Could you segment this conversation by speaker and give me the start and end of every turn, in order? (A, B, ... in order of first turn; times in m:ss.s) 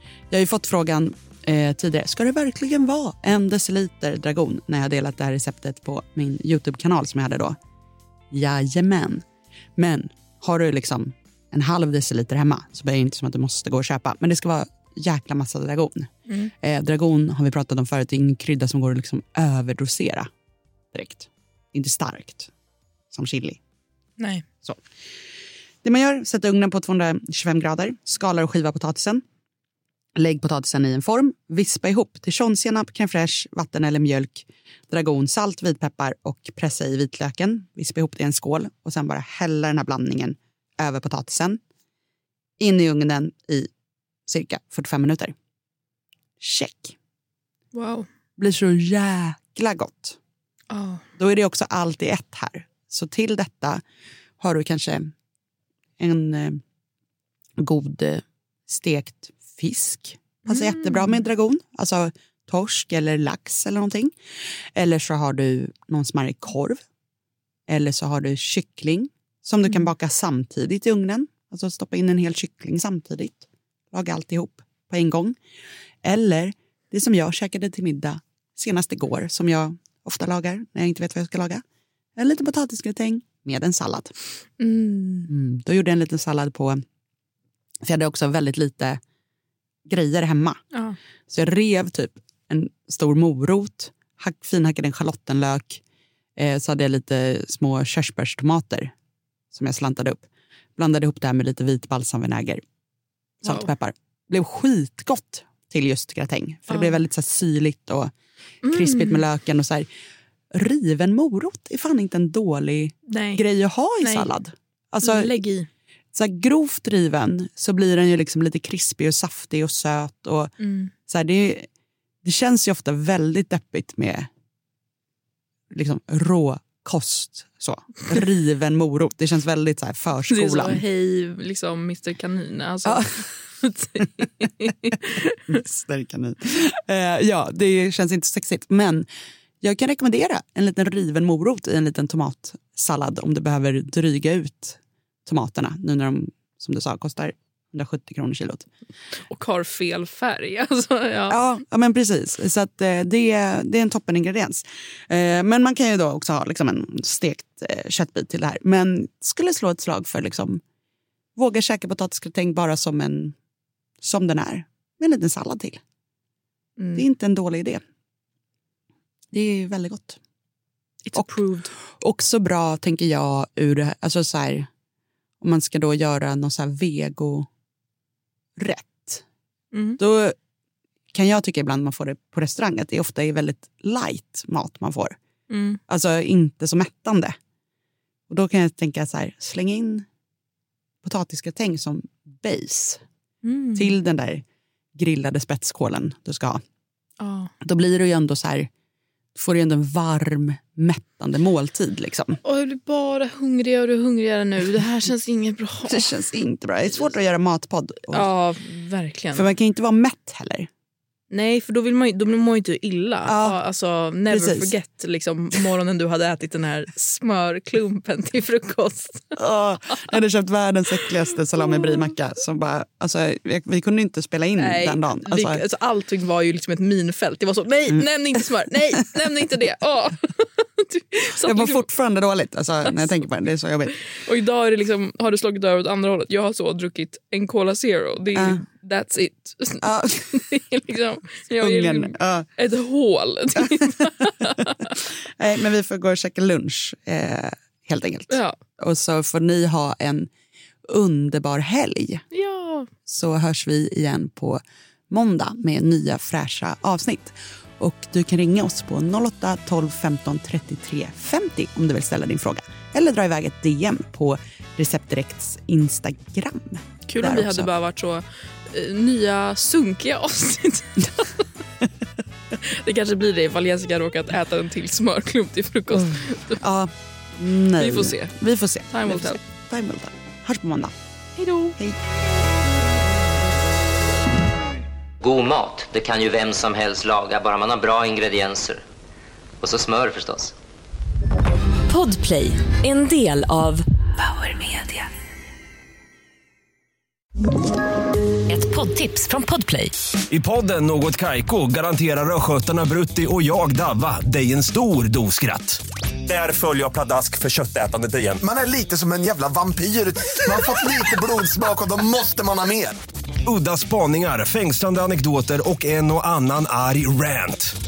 0:00.3-0:07.6 A
0:08.3-0:09.2 A
0:09.8-0:16.1 A
0:16.6-0:20.3 A
0:20.9-0:22.5 A
0:23.1-0:23.6 A
0:24.2-0:24.5 B
0:25.8-0:29.2 A
0:30.2-0:41.6 A
0:42.6-0:43.7 A
0:44.3-0:45.3 A
0:46.4-0:47.0 A
0:47.7-0:48.1 B
0:48.4-0:50.2 A
0:50.7-0:51.0 B
0:51.2-0:53.8 A
0:54.4-0:55.1 A
0:56.0-0:56.6 A
0:57.6-1:04.1 A
1:00.5-1:01.2 B
1:04.8-1:06.8 A
1:07.7-1:15.4 A
1:16.0-1:21.6 A
1:22.2-1:24.1 A
1:24.6-1:25.3 B
1:25.3-1:26.8 A
1:27.8-1:29.0 A
1:29.9-1:30.6 A
1:30.7-1:31.0 B
1:31.3-1:35.8 A
1:36.4-1:38.9 A
1:39.5-1:42.6 A
1:43.4-1:48.1 A
1:46.7-1:47.0 B
1:48.6-1:49.2 B
1:48.7-1:49.9 A
1:50.5-1:55.3 A
1:53.1-1:53.4 B
1:54.0-1:54.3 B
1:55.0-1:55.7 B
1:56.1-2:00.5 A
2:00.6-2:00.9 B
2:01.1-2:01.7 A
2:02.2-2:04.3 A
2:05.7-2:10.8 A
2:10.3-2:15.4 B
2:12.8-2:13.2 A
2:15.5-2:19.1 A
2:19.6-2:28.7 A
2:29.3-2:31.4 B
2:31.3-2:40.6 A
2:41.4-2:43.4 A
2:44.0-2:45.8 A
2:46.8-2:47.1 B
2:47.0-2:47.8 A
2:49.3-2:50.2 A
2:51.0-2:51.7 B
2:51.2-2:54.7 A
2:55.4-2:57.5 A
2:58.6-2:59.2 A
2:59.7-3:00.0 B
3:00.0-3:00.4 A
3:01.1-3:05.2 A
3:05.5-3:05.8 B
3:05.9-3:07.4 A
3:08.3-3:10.1 A
3:11.0-3:13.0 A
3:13.4-3:13.9 B
3:13.8-3:14.4 A
3:15.0-3:16.6 A
3:17.2-3:17.5 B
3:17.6-3:18.7 A
3:19.4-3:22.4 A
3:22.4-3:26.3 B
3:25.9-3:28.3 A
3:28.1-3:29.5 B
3:29.3-3:30.7 A
3:31.3-3:39.4 B
3:33.2-3:33.6 A
3:34.3-3:34.8 A
3:39.4-3:45.6 A
3:41.7-3:42.0 B
3:44.6-3:51.9 B
3:51.4-3:54.0 A
3:54.1-4:05.0 B
3:58.4-3:58.6 A
3:59.8-4:00.4 A
4:01.6-4:02.5 A
4:03.6-4:04.1 A
4:04.9-4:10.3 A
4:08.3-4:08.6 B
4:10.9-4:12.2 A
4:12.3-4:12.9 B
4:13.1-4:27.7 A
4:27.1-4:31.4 B
4:32.6-4:36.6 B
4:35.9-4:40.9 A
4:37.8-4:38.4 B
4:38.9-4:39.4 B
4:41.4-4:41.8 B
4:45.2-4:48.8 C
4:49.6-4:50.6 C
4:51.9-4:55.0 D
4:58.5-4:59.9 D
5:00.3-5:08.4 E
5:08.4-5:13.0 F
5:13.5-5:17.7 E